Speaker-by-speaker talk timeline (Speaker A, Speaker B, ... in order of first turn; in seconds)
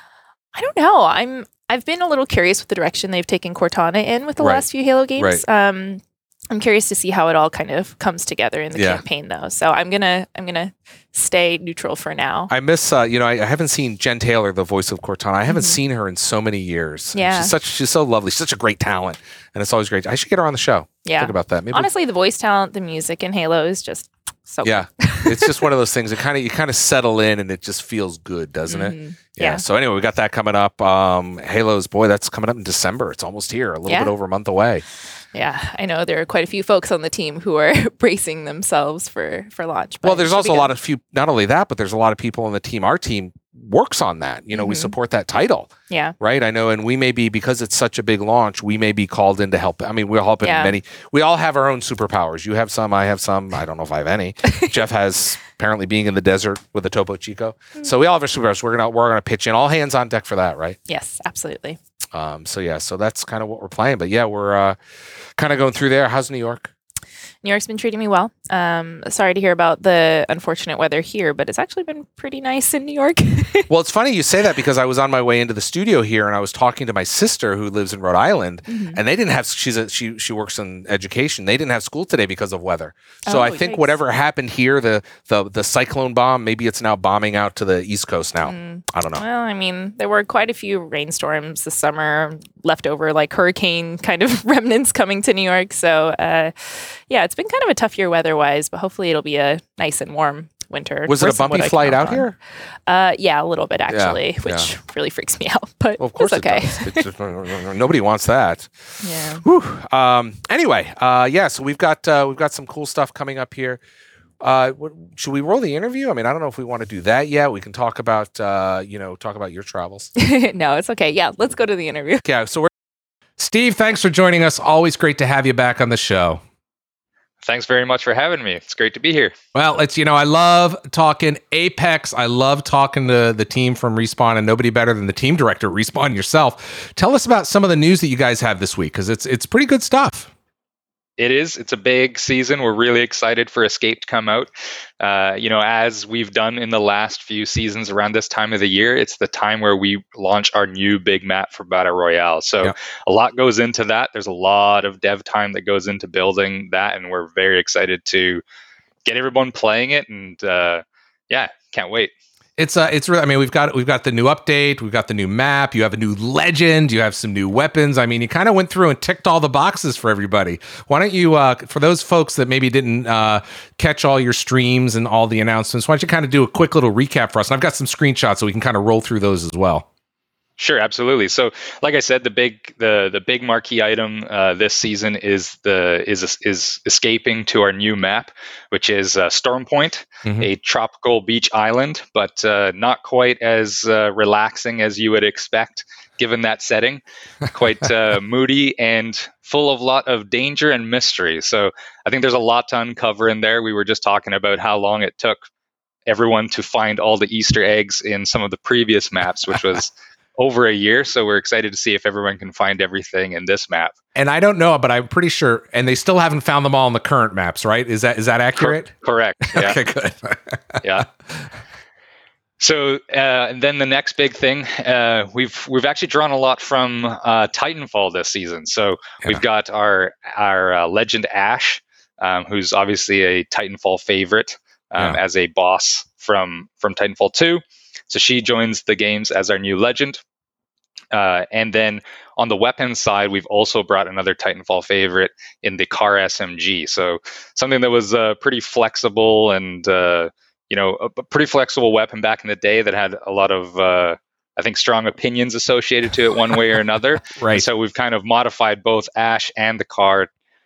Speaker A: 0.5-12.5, 15.5-15.8, 17.1-17.5, 21.0-25.5, 28.7-29.6, 35.3-40.7, 44.5-44.9, 45.9-46.1, 50.4-50.7, 60.9-61.8, 67.4-73.7, 78.7-79.0, 83.3-84.0, 88.4-102.3, 102.9-107.0, 109.0-109.4, 120.2-122.2
Speaker B: 4.4-4.6, 5.2-5.4, 8.7-9.0, 12.5-21.9, 24.6-34.8, 40.0-60.8, 62.1-64.8, 65.3-66.7, 73.7-89.2, 101.1-102.3, 103.9-104.7, 106.0-108.7, 109.3-113.8, 114.4-120.1, 122.2-122.7, 123.4-126.4, 129.5-140.3, 162.6-179.8, 190.2-190.5, 214.1-218.9, 219.4-221.5, 257.4-257.6
Speaker C: 127.4-129.3, 141.2-144.5, 145.0-158.4, 159.0-162.1, 180.6-205.4, 206.1-213.9, 218.6-219.8, 220.8-221.1, 222.6-240.2, 241.1-260.3